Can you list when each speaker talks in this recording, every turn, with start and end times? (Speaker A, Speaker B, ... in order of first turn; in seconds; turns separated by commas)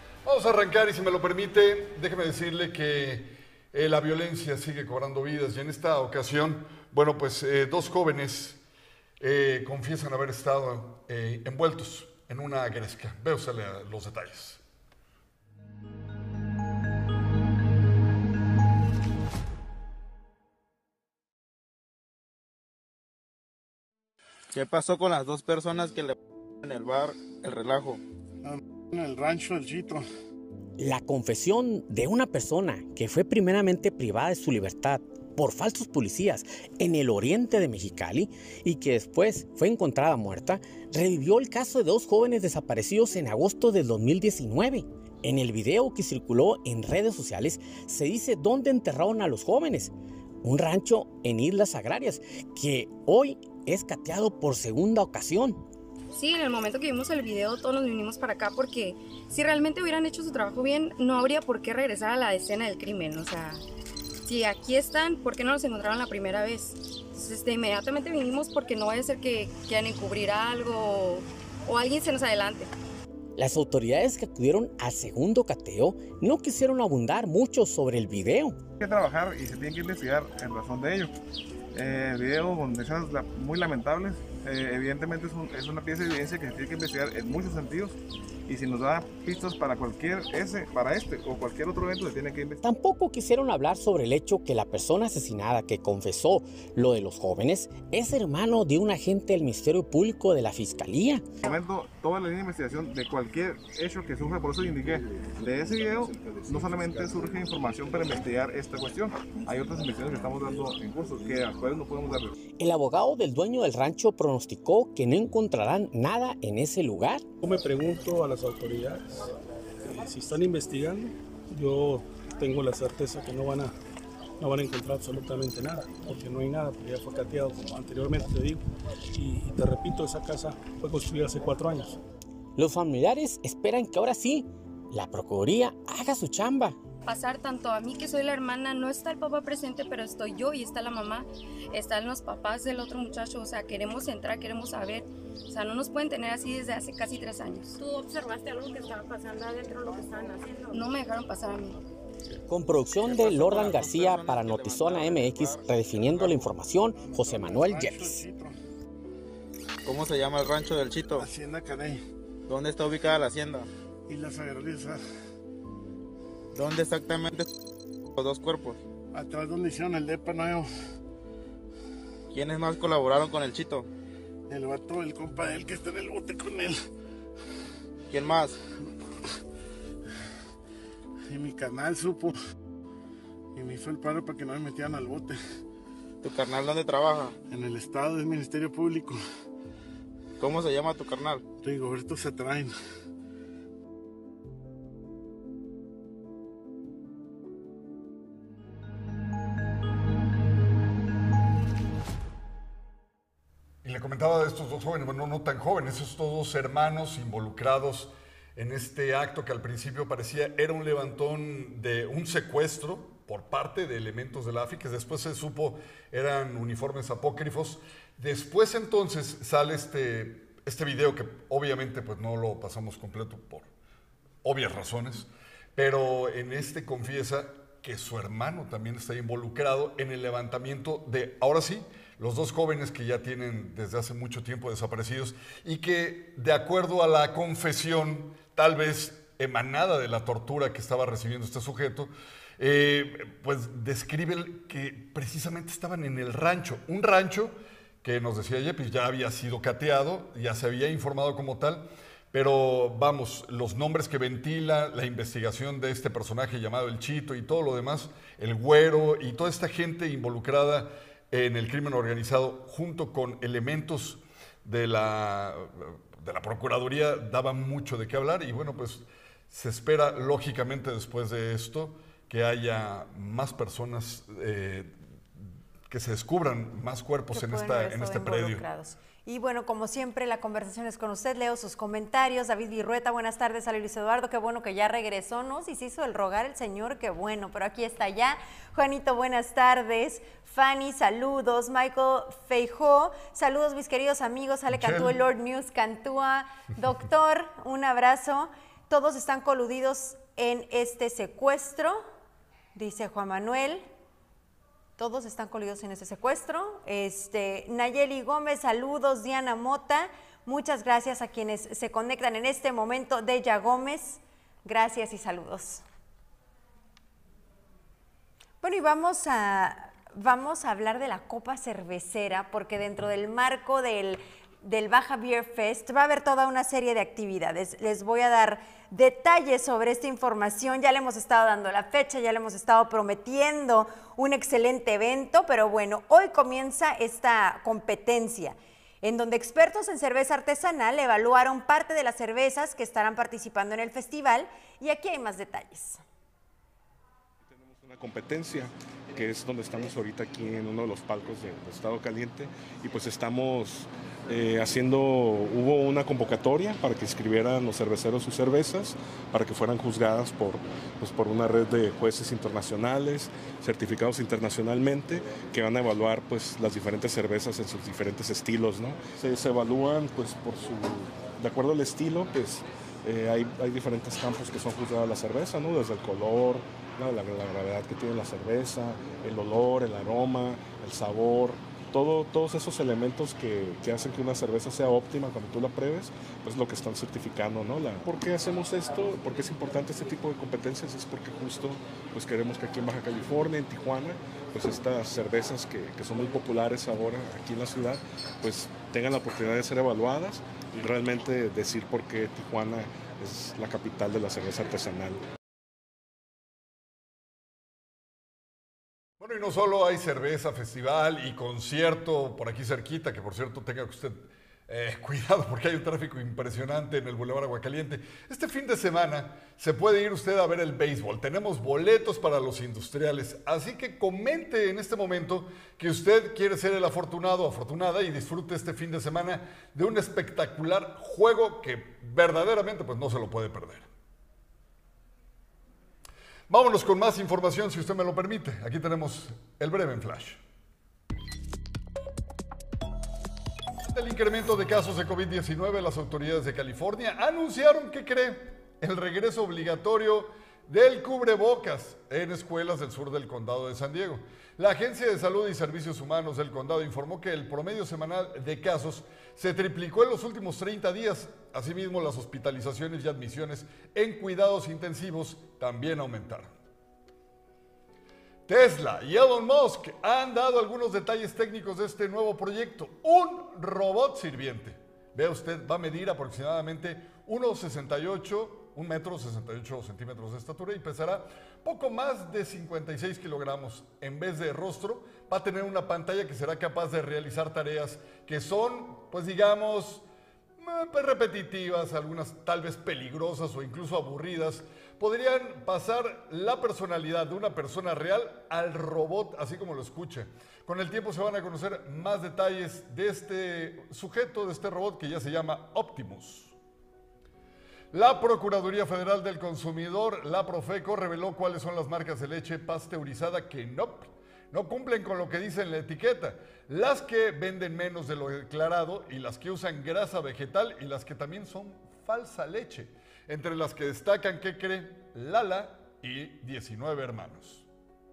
Speaker A: 0.2-8.6, Speaker A: 9.2-14.6, Speaker B: 24.5-28.0, Speaker C: 28.4-30.1, Speaker D: 30.8-55.6, Speaker E: 56.1-63.6, Speaker E: 64.2-72.7, Speaker D: 73.4-78.6, Speaker F: 78.8-81.1, Speaker F: 81.7-92.6, Speaker D: 92.6-101.2, Speaker F: 101.4-112.3, Speaker D: 112.6-117.2, Speaker G: 117.4-119.3, Speaker G: 119.8-123.7, Speaker G: 124.4-128.6, Speaker G: 129.1-132.0, Speaker D: 132.6-136.8, Speaker E: 137.1-147.8, Speaker H: 147.8-150.8, Speaker E: 150.7-151.8, Speaker D: 152.5-158.2, Speaker B: 153.0-155.7, Speaker C: 157.0-158.6, Speaker B: 159.8-161.3, Speaker C: 161.2-162.0, Speaker B: 162.5-163.7, Speaker C: 164.1-165.0, Speaker B: 166.5-167.5, Speaker B: 168.2-168.8, Speaker C: 169.1-170.7, Speaker B: 172.3-173.9, Speaker C: 174.5-176.8, Speaker B: 178.1-178.6, Speaker C: 181.3-182.3, Speaker C: 183.5-185.4, Speaker B: 186.2-187.4, Speaker C: 187.5-189.2, Speaker B: 190.4-191.4, Speaker C: 191.6-192.7, Speaker A: 203.8-223.7, Speaker A: 224.4-278.6, Speaker I: 277.3-302.0, Speaker A: 294.7-295.2, Speaker I: 302.8-303.9, Speaker I: 305.0-315.8, Speaker I: 318.6-346.0, Speaker J: 347.5-405.2, Speaker A: 409.2-433.9, Speaker A: 436.5-440.4, Speaker A: 443.8-466.5, Speaker A: 468.5-490.0, Speaker A: 490.6-506.6, Speaker A: 507.9-527.7